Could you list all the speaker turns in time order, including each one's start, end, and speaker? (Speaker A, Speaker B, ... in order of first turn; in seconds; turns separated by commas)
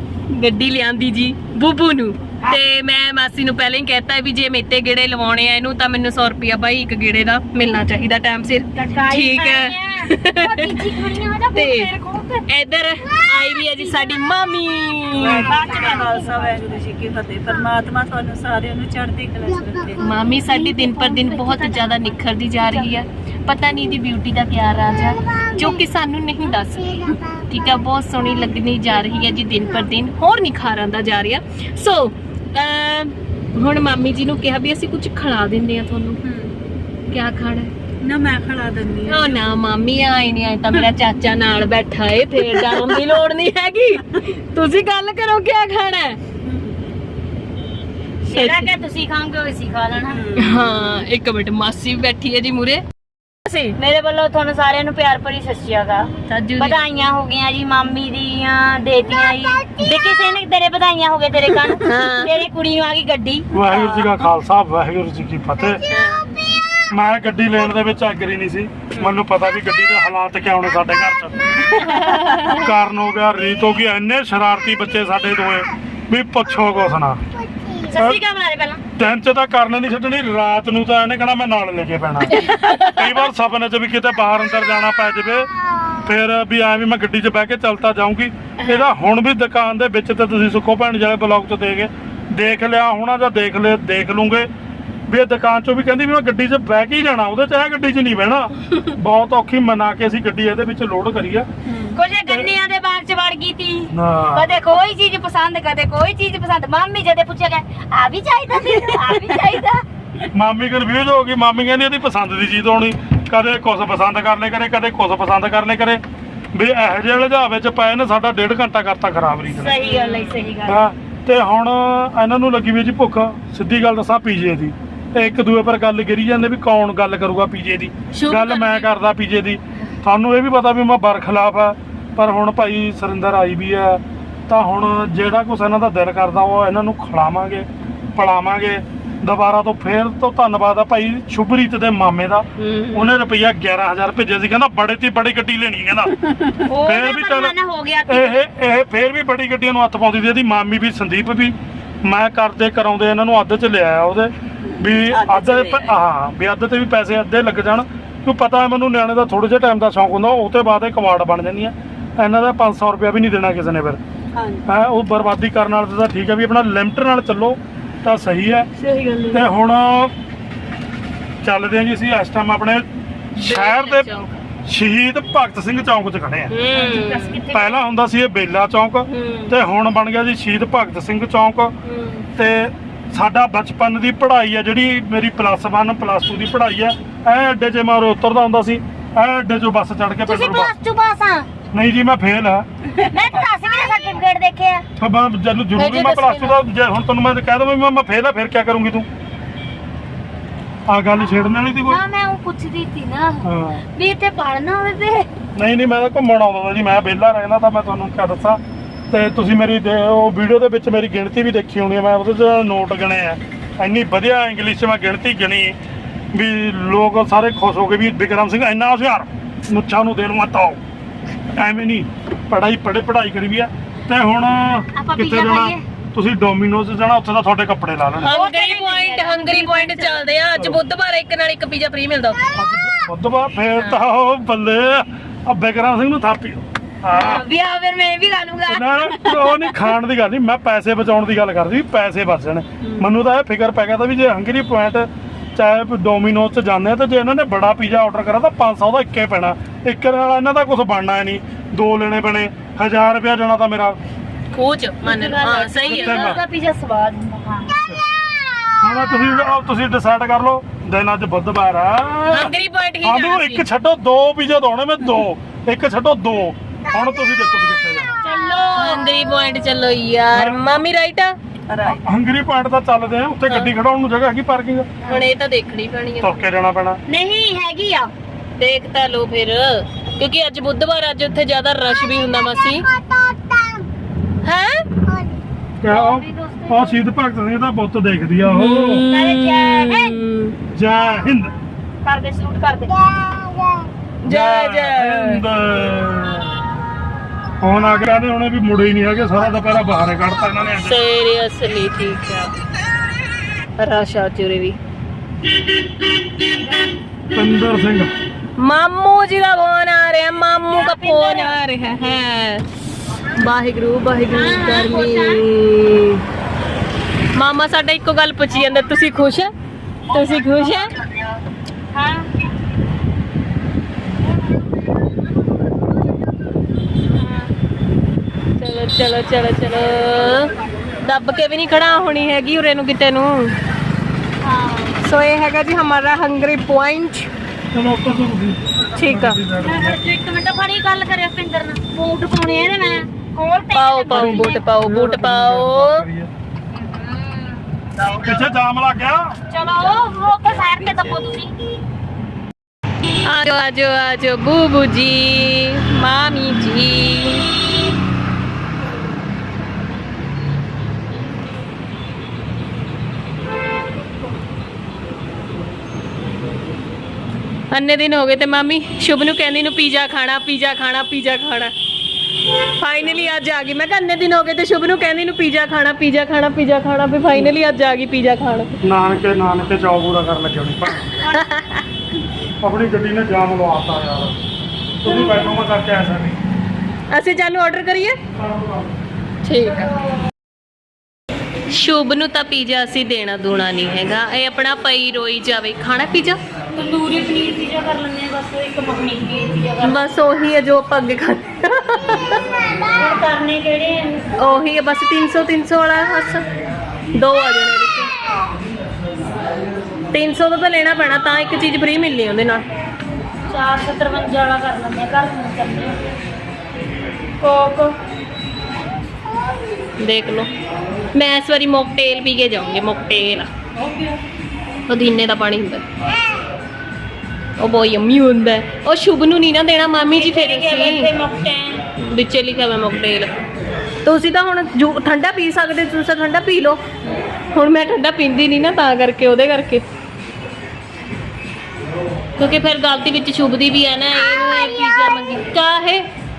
Speaker A: 0.3-10.8, Speaker B: 8.7-12.4, Speaker A: 11.5-11.9, Speaker A: 12.5-15.5, Speaker B: 15.1-16.8, Speaker C: 15.2-20.0, Speaker B: 17.4-22.2, Speaker A: 20.0-36.2, Speaker A: 37.1-37.7, Speaker C: 38.0-39.4, Speaker A: 39.0-46.2, Speaker B: 48.2-50.4, Speaker A: 48.3-48.7, Speaker A: 50.4-52.8, Speaker A: 53.5-53.7, Speaker B: 53.8-64.1, Speaker A: 56.3-56.8, Speaker A: 61.8-62.3, Speaker D: 63.5-65.8, Speaker A: 65.8-66.3, Speaker D: 66.9-77.2, Speaker A: 71.7-72.7, Speaker B: 77.8-78.8, Speaker D: 78.0-78.2, Speaker D: 79.0-94.5, Speaker A: 82.3-83.1, Speaker D: 95.1-101.5, Speaker B: 101.8-109.8, Speaker D: 102.2-102.5, Speaker D: 103.9-104.5, Speaker D: 110.3-116.0, Speaker D: 116.5-119.8, Speaker B: 119.6-120.8, Speaker A: 119.8-120.3, Speaker D: 120.7-147.5, Speaker A: 128.2-128.9, Speaker A: 142.6-143.1, Speaker B: 146.6-148.4, Speaker D: 148.1-164.0, Speaker B: 154.7-155.9, Speaker B: 164.3-164.6, Speaker D: 164.7-168.7, Speaker A: 168.8-169.4, Speaker D: 169.3-170.1, Speaker D: 171.4-174.1, Speaker A: 173.4-174.4, Speaker D: 174.7-176.5, Speaker A: 176.5-177.4, Speaker B: 176.7-177.8, Speaker D: 177.5-181.7, Speaker A: 179.1-179.5, Speaker A: 181.8-182.2, Speaker D: 182.3-190.7, Speaker B: 190.2-191.5, Speaker D: 191.7-192.7, Speaker B: 193.1-194.8, Speaker D: 195.0-199.1, Speaker A: 195.8-196.6, Speaker D: 200.9-202.0, Speaker B: 201.1-205.3, Speaker D: 203.4-203.8, Speaker D: 205.5-215.8, Speaker D: 216.3-220.8, Speaker D: 221.5-228.3, Speaker B: 224.9-225.8, Speaker A: 228.2-232.6, Speaker B: 228.2-230.3, Speaker D: 232.5-237.4, Speaker B: 237.1-239.8, Speaker D: 238.7-254.0, Speaker A: 254.5-256.3, Speaker B: 255.0-257.8, Speaker D: 255.8-256.4, Speaker D: 258.8-268.2, Speaker A: 262.2-263.6, Speaker B: 268.2-269.1, Speaker A: 268.7-271.3, Speaker D: 270.3-270.7, Speaker B: 271.7-272.0, Speaker D: 272.0-274.9, Speaker A: 275.0-276.4, Speaker D: 276.2-277.0, Speaker B: 277.1-278.1, Speaker A: 278.6-282.8, Speaker B: 282.9-283.8, Speaker A: 284.4-284.9, Speaker D: 285.8-289.0, Speaker B: 285.8-287.0, Speaker A: 288.4-290.6, Speaker B: 289.1-290.1, Speaker D: 290.7-291.5, Speaker B: 292.0-293.9, Speaker A: 294.2-295.4, Speaker D: 294.2-296.6, Speaker D: 297.6-300.9, Speaker A: 300.8-302.5, Speaker A: 303.8-304.8, Speaker D: 307.3-308.1, Speaker A: 308.6-312.6, Speaker B: 310.7-311.6, Speaker A: 313.3-316.2, Speaker B: 314.3-315.4, Speaker A: 317.3-319.5, Speaker A: 320.1-320.9, Speaker B: 320.1-321.1, Speaker B: 321.9-322.3, Speaker B: 327.1-327.5, Speaker A: 328.6-330.5, Speaker A: 331.0-333.5, Speaker B: 334.4-335.0, Speaker A: 335.0-337.3, Speaker D: 337.7-340.0, Speaker A: 338.9-339.4, Speaker B: 339.6-344.6, Speaker A: 343.7-346.0, Speaker D: 344.1-346.3, Speaker B: 346.9-348.4, Speaker D: 348.2-349.3, Speaker B: 349.5-351.5, Speaker A: 353.2-357.4, Speaker A: 367.7-371.7, Speaker A: 372.8-378.7, Speaker D: 378.8-381.2, Speaker A: 381.2-381.8, Speaker D: 382.6-384.4, Speaker D: 385.0-386.4, Speaker A: 387.1-388.2, Speaker D: 388.3-388.9, Speaker A: 389.4-389.9, Speaker A: 391.7-396.4, Speaker B: 396.7-400.0, Speaker A: 399.8-402.4, Speaker B: 402.8-404.3, Speaker A: 404.4-406.4, Speaker A: 407.1-408.1, Speaker A: 410.1-412.6, Speaker B: 413.5-416.0, Speaker B: 417.4-417.9, Speaker A: 420.0-420.5, Speaker A: 421.1-423.5, Speaker B: 423.8-424.2, Speaker A: 424.9-425.8, Speaker A: 427.6-431.1, Speaker B: 430.0-431.8, Speaker A: 432.0-433.3, Speaker A: 434.0-436.8, Speaker A: 437.5-439.8, Speaker A: 442.4-446.0